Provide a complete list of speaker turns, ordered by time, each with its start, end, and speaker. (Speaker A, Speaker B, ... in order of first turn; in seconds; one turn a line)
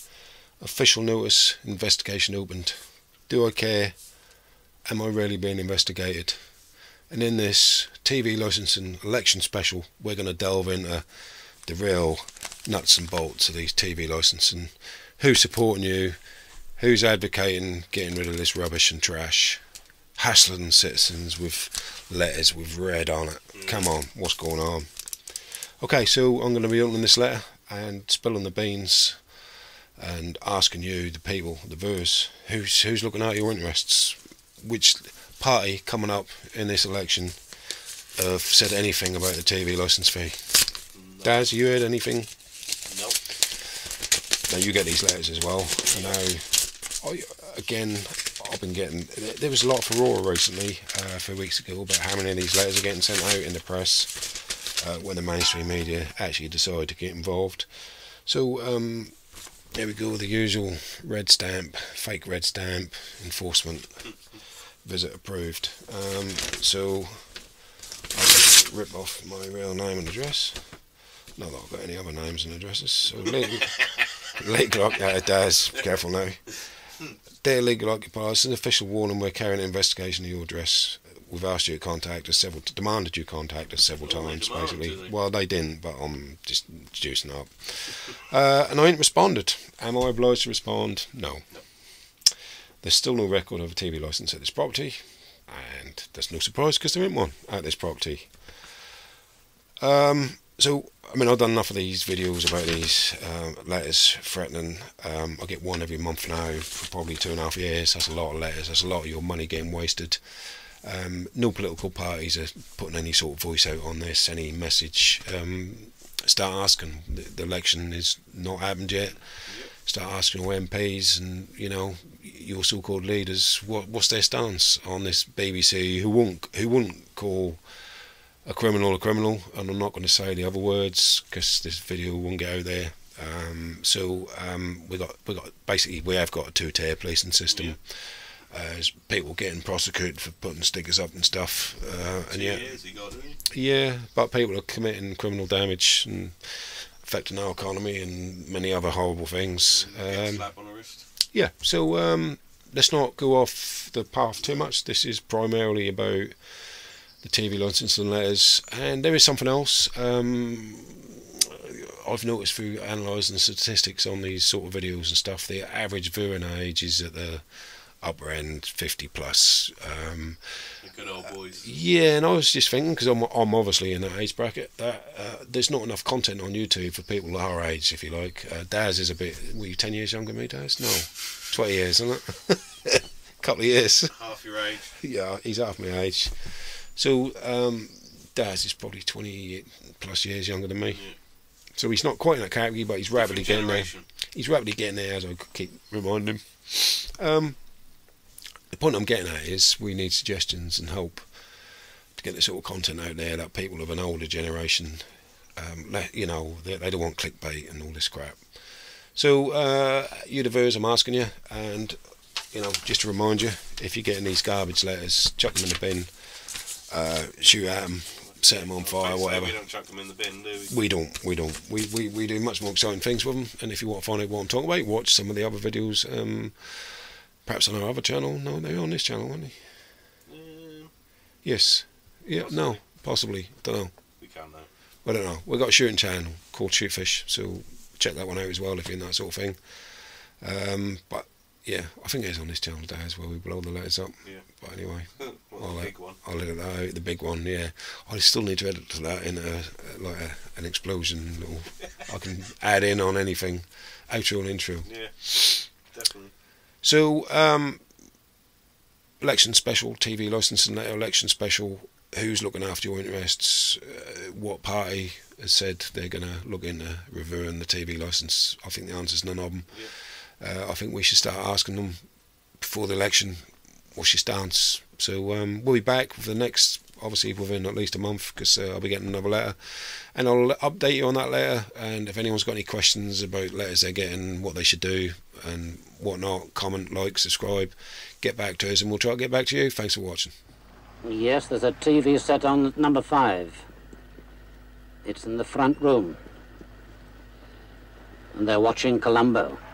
Speaker A: 0.6-4.2
Speaker A: 4.9-16.2
Speaker A: 16.8-19.6
Speaker A: 20.2-29.4
Speaker B: 23.5-23.9
Speaker A: 30.0-37.6
Speaker A: 38.1-42.3
Speaker B: 40.9-41.4
Speaker B: 42.9-43.2
Speaker A: 44.5-59.2
Speaker B: 45.9-46.2
Speaker A: 59.7-67.5
Speaker A: 68.1-76.9
Speaker B: 73.7-74.0
Speaker A: 77.4-92.3
Speaker B: 83.9-85.1
Speaker A: 92.8-98.8
Speaker A: 99.8-127.6
Speaker B: 119.5-119.7
Speaker A: 128.4-142.8
Speaker B: 137.5-137.8
Speaker B: 142.3-143.4
Speaker A: 143.5-150.5
Speaker B: 149.7-151.1
Speaker A: 151.3-170.8
Speaker B: 170.8-171.7
Speaker A: 171.5-184.2
Speaker B: 184.1-185.0
Speaker A: 184.9-191.1
Speaker B: 190.9-191.2
Speaker A: 191.7-198.1
Speaker B: 193.1-194.1
Speaker A: 198.7-201.3
Speaker A: 202.2-219.6
Speaker B: 218.2-220.7
Speaker A: 220.7-229.6
Speaker B: 230.3-230.9
Speaker A: 231.4-233.9
Speaker B: 232.3-232.8
Speaker B: 234.2-234.7
Speaker A: 235.0-255.6
Speaker B: 245.1-246.2
Speaker B: 254.8-256.3
Speaker A: 256.8-257.8
Speaker A: 259.2-290.3
Speaker C: 291.0-293.6
Speaker C: 295.1-296.2
Speaker C: 298.3-299.6